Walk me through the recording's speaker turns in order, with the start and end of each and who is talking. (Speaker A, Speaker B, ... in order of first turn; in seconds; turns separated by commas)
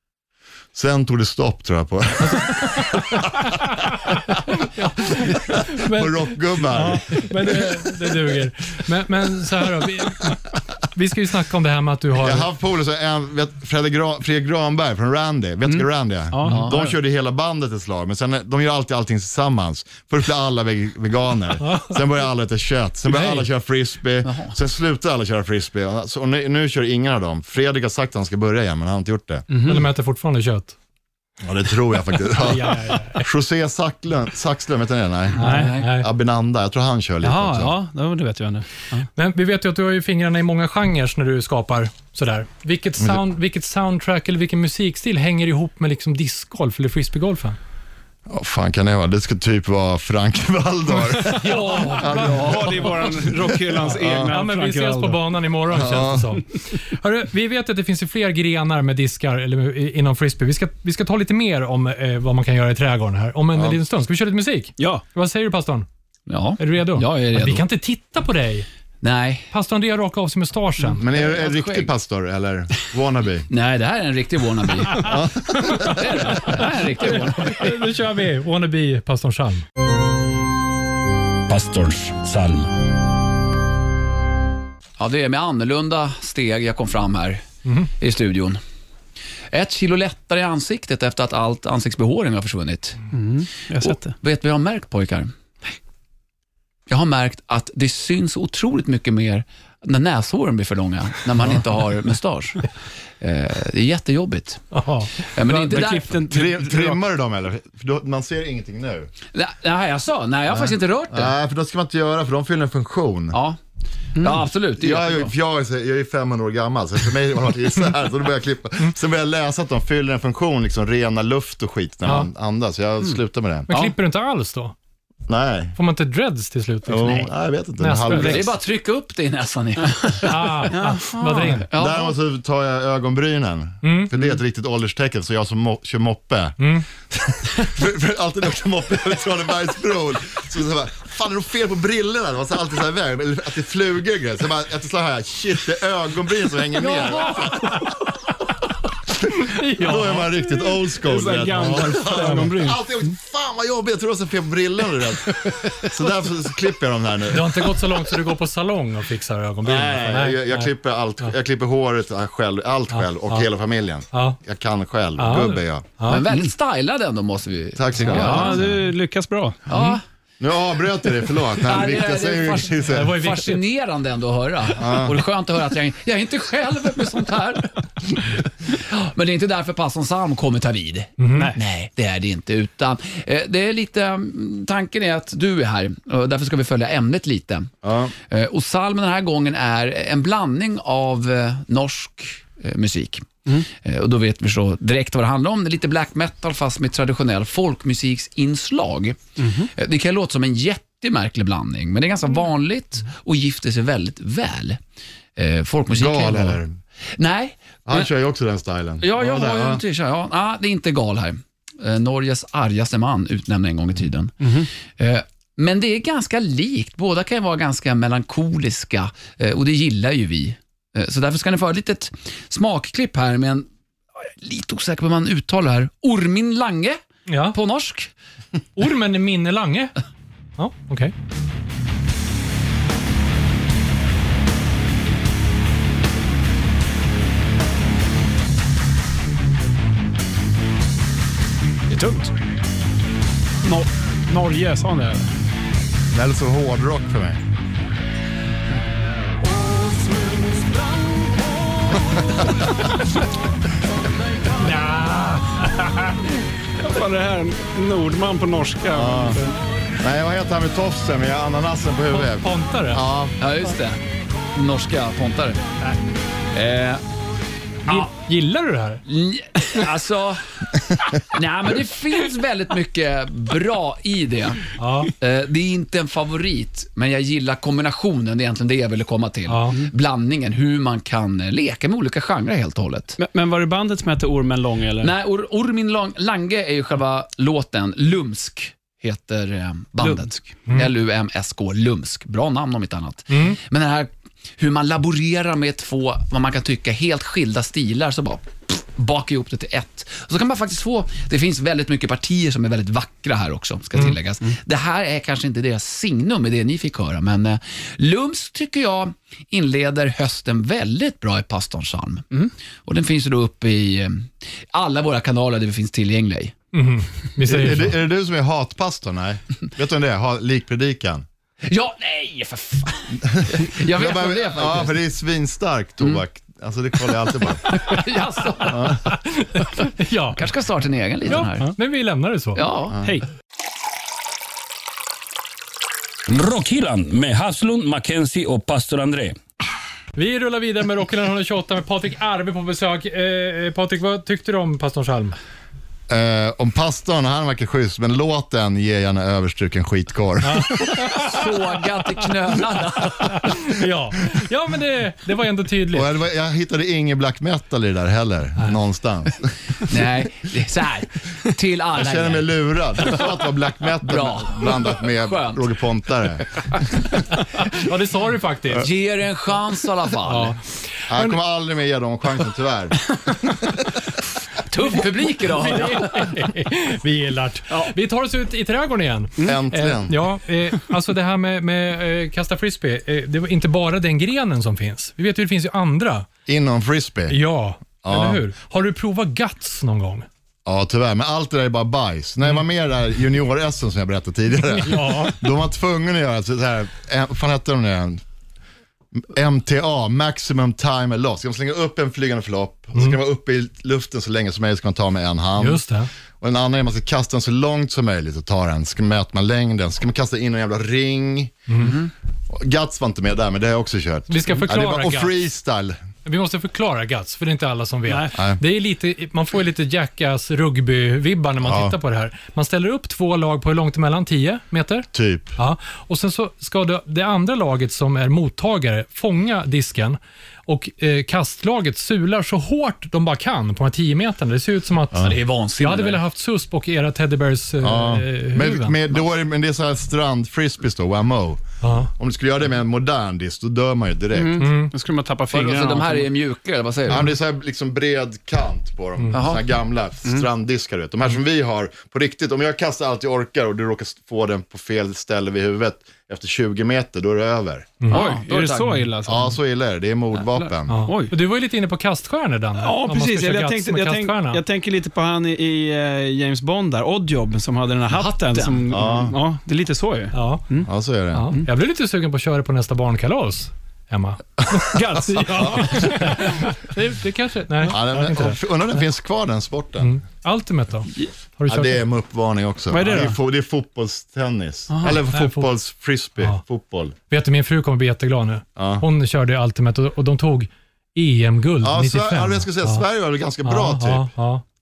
Speaker A: 0.7-4.5, Speaker B: 2.2-12.5, Speaker A: 5.1-8.1, Speaker A: 12.2-29.5, Speaker C: 15.7-16.9, Speaker D: 16.4-16.8, Speaker B: 21.6-22.0, Speaker B: 23.1-23.5, Speaker D: 24.2-24.6, Speaker C: 29.5-29.9, Speaker B: 29.6-30.8, Speaker A: 31.4-37.8, Speaker B: 32.4-33.3, Speaker D: 35.4-35.9, Speaker B: 35.4-36.1, Speaker C: 35.4-35.7, Speaker C: 37.2-39.1, Speaker B: 39.1-47.6, Speaker A: 48.3-53.2, Speaker B: 51.2-53.0, Speaker C: 51.7-55.2, Speaker B: 53.8-65.9, Speaker A: 53.9-54.3, Speaker A: 55.7-56.4, Speaker A: 63.5-63.8, Speaker C: 64.8-65.0, Speaker D: 66.3-67.7, Speaker B: 66.6-68.7, Speaker D: 69.0-69.5, Speaker B: 69.5-71.0, Speaker A: 71.0-73.5, Speaker D: 71.1-71.9, Speaker D: 73.5-75.2, Speaker A: 74.9-76.5, Speaker B: 75.6-79.6, Speaker D: 75.7-77.8, Speaker E: 81.5-82.7, Speaker D: 85.0-87.4, Speaker B: 87.7-87.9, Speaker D: 88.0-88.6, Speaker D: 89.5-93.0, Speaker C: 93.1-94.1, Speaker D: 93.8-95.3, Speaker D: 96.9-102.7, Speaker D: 103.2-104.6, Speaker B: 104.7-105.1, Speaker D: 105.3-106.2, Speaker C: 105.4-107.0, Speaker A: 106.2-109.1, Speaker D: 109.3-111.3, Speaker A: 110.5-113.4, Speaker D: 113.3-113.6, Speaker D: 114.2-115.3, Speaker A: 114.8-123.7, Speaker B: 123.7-124.7, Speaker A: 125.3-125.8, Speaker B: 125.8-128.5, Speaker A: 126.9-128.6, Speaker D: 128.1-130.7, Speaker B: 130.2-131.7, Speaker C: 130.7-131.6, Speaker D: 131.5-132.2, Speaker A: 131.7-147.8, Speaker B: 133.8-134.1, Speaker B: 136.6-136.9, Speaker D: 146.9-147.5, Speaker A: 149.4-158.1, Speaker B: 149.5-150.3, Speaker C: 151.0-152.9, Speaker B: 152.2-152.5, Speaker B: 157.3-160.7, Speaker A: 159.6-165.9, Speaker B: 162.9-163.5, Speaker B: 164.1-164.4, Speaker B: 165.2-166.3, Speaker D: 166.1-168.7, Speaker A: 167.8-168.8, Speaker B: 168.0-168.5, Speaker C: 168.1-169.6, Speaker D: 169.7-170.0, Speaker B: 169.7-170.0, Speaker A: 170.4-173.3, Speaker D: 171.6-187.7, Speaker B: 172.9-173.6, Speaker A: 174.8-175.2, Speaker B: 181.2-181.5, Speaker A: 187.8-188.1, Speaker D: 188.3-199.2, Speaker C: 199.4-199.7, Speaker D: 199.7-204.8, Speaker D: 205.4-206.6, Speaker A: 205.9-206.8, Speaker D: 207.2-208.1, Speaker A: 207.9-209.8, Speaker D: 209.0-223.7, Speaker C: 214.4-214.7, Speaker D: 224.2-227.0, Speaker B: 227.3-227.6, Speaker D: 227.5-228.1, Speaker B: 228.8-229.9, Speaker B: 230.6-231.1, Speaker C: 241.9-242.3, Speaker C: 243.6-245.3, Speaker A: 246.1-247.4, Speaker A: 252.2-252.7, Speaker B: 254.7-255.4, Speaker C: 256.8-259.6, Speaker A: 258.9-259.4, Speaker A: 260.0-263.4, Speaker B: 262.1-263.0, Speaker D: 263.4-264.0, Speaker D: 264.5-265.6, Speaker D: 266.5-267.0, Speaker B: 267.9-269.0, Speaker D: 269.1-283.2, Speaker B: 274.8-275.1, Speaker B: 279.5-279.8, Speaker C: 283.2-285.1, Speaker D: 285.0-312.3, Speaker C: 290.0-290.3, Speaker B: 293.3-293.6, Speaker D: 312.9-316.6, Speaker B: 316.7-318.0, Speaker A: 317.4-321.2, Speaker D: 321.6-325.0, Speaker A: 323.2-327.7, Speaker D: 327.6-329.0, Speaker A: 328.6-329.0, Speaker B: 329.1-330.5, Speaker D: 330.4-331.7, Speaker B: 331.3-332.6, Speaker D: 332.6-333.0, Speaker E: 336.3-339.4, Speaker B: 340.1-345.4, Speaker A: 346.1-351.1, Speaker B: 350.4-351.5, Speaker D: 351.1-353.5, Speaker B: 353.1-356.1, Speaker A: 355.9-359.9, Speaker D: 359.9-362.5, Speaker A: 361.9-367.1, Speaker D: 364.0-365.7, Speaker B: 367.6-368.9, Speaker D: 368.8-370.6, Speaker B: 370.2-371.4, Speaker A: 371.1-373.5, Speaker D: 374.6-376.4, Speaker B: 375.4-386.3, Speaker A: 379.4-380.2, Speaker A: 386.5-387.4, Speaker B: 387.3-390.3, Speaker A: 388.0-388.4, Speaker A: 390.7-398.2, Speaker B: 394.8-395.4, Speaker A: 399.1-405.8, Speaker B: 405.6-406.1, Speaker A: 406.4-411.9, Speaker B: 411.7-411.9, Speaker D: 411.8-412.1, Speaker A: 412.5-416.0, Speaker B: 414.3-415.4, Speaker B: 416.2-439.0, Speaker C: 418.1-418.4, Speaker A: 418.3-418.6, Speaker A: 421.6-422.0, Speaker A: 425.1-425.6, Speaker D: 435.2-436.2, Speaker A: 437.8-444.7, Speaker B: 441.8-442.1, Speaker C: 444.3-446.3, Speaker B: 444.6-444.9, Speaker D: 445.5-447.3, Speaker A: 447.1-458.0, Speaker D: 449.3-449.6, Speaker D: 458.1-459.0, Speaker C: 458.1-459.6, Speaker A: 459.3-461.1, Speaker B: 460.9-464.6, Speaker C: 461.1-461.3, Speaker C: 462.8-470.9, Speaker D: 468.1-468.8, Speaker A: 468.9-469.4, Speaker B: 470.3-470.6, Speaker A: 470.9-471.5, Speaker B: 471.3-478.6, Speaker A: 474.6-476.4, Speaker C: 474.9-476.6, Speaker A: 477.9-480.1, Speaker B: 480.0-482.0, Speaker A: 481.7-487.1, Speaker C: 482.9-483.4, Speaker C: 484.9-485.2, Speaker B: 485.3-485.7, Speaker B: 487.3-493.1, Speaker A: 488.8-489.1, Speaker A: 491.8-494.3, Speaker B: 493.6-494.6